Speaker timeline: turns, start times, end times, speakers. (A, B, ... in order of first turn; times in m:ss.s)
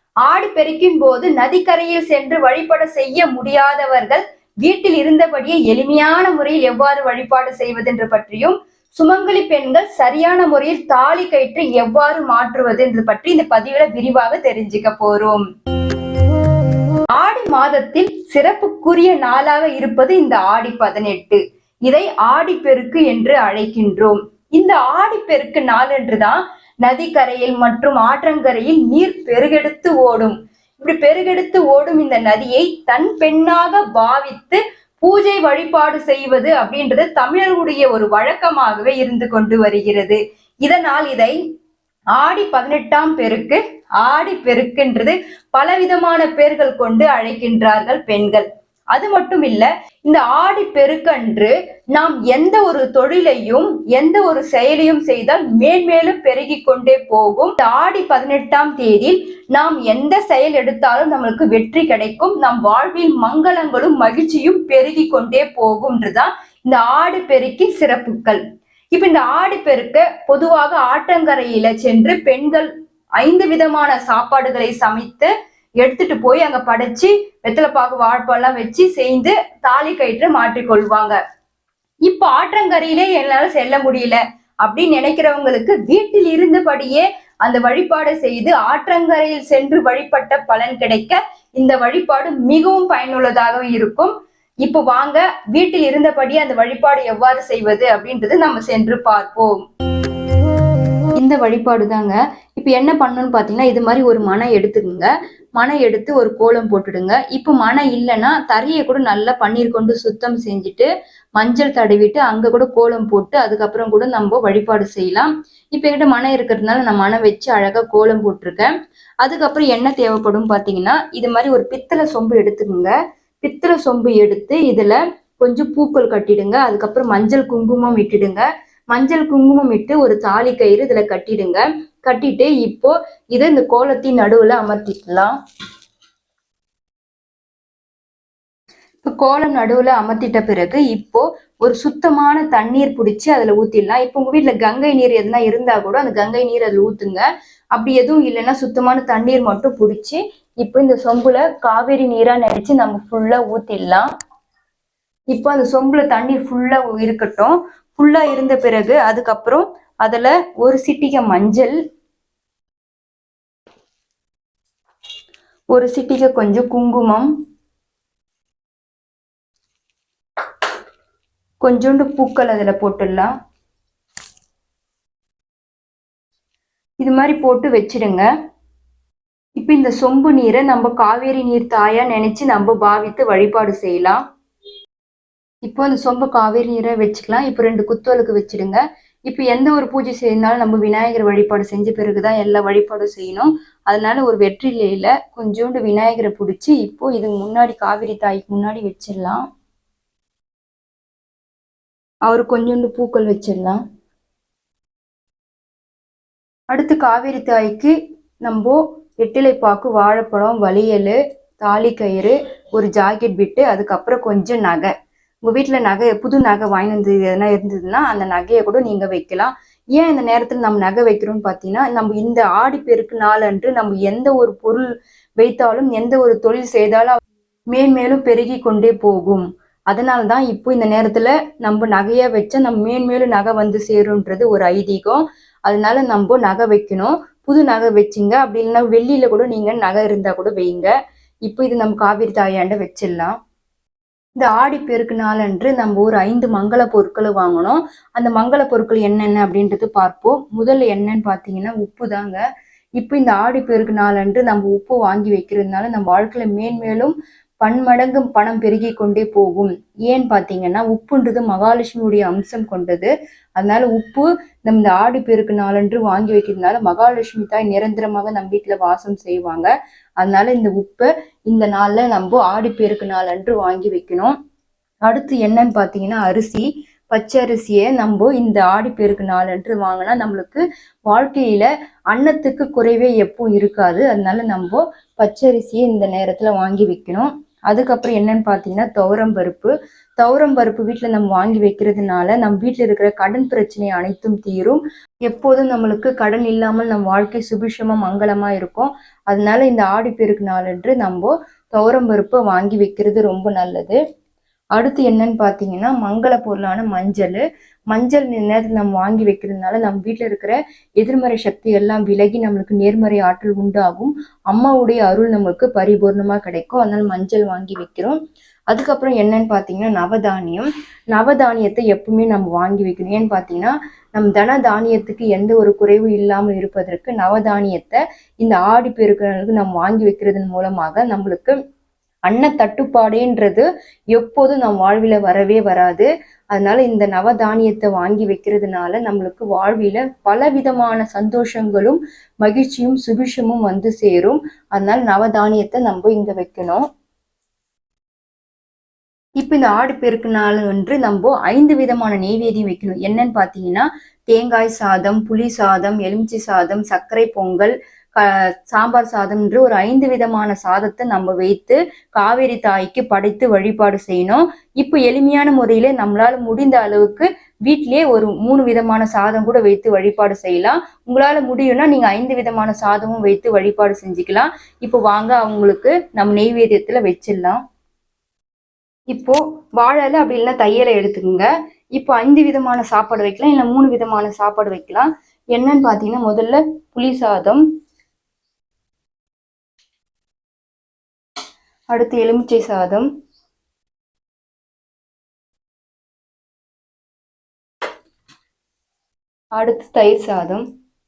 0:00.2-0:15.4 A
0:17.1-0:41.4 A
0:42.2-1:08.4 A
1:08.9-1:21.2 A
1:22.0-1:39.6 A
1:41.2-2:15.4 A
2:19.0-2:34.1 A
2:35.3-2:41.8 A
2:45.7-2:47.3 A
2:51.6-2:53.3 A
2:57.0-2:58.3 A
2:59.6-3:04.2 A
3:05.6-3:19.4 A
3:22.3-3:23.8 A
3:26.7-3:34.9 A
3:35.4-3:47.2 A
3:47.7-4:00.9 A
4:01.5-4:03.4 A
4:04.4-4:12.4 A
4:13.0-4:34.3 A
4:35.0-5:04.0 A
5:04.8-5:18.2 A
5:18.7-5:31.6 A
5:32.3-5:46.8 A
5:49.4-6:17.6 A
6:19.1-6:27.6 A
6:31.9-6:33.1 A
6:39.6-6:40.6 A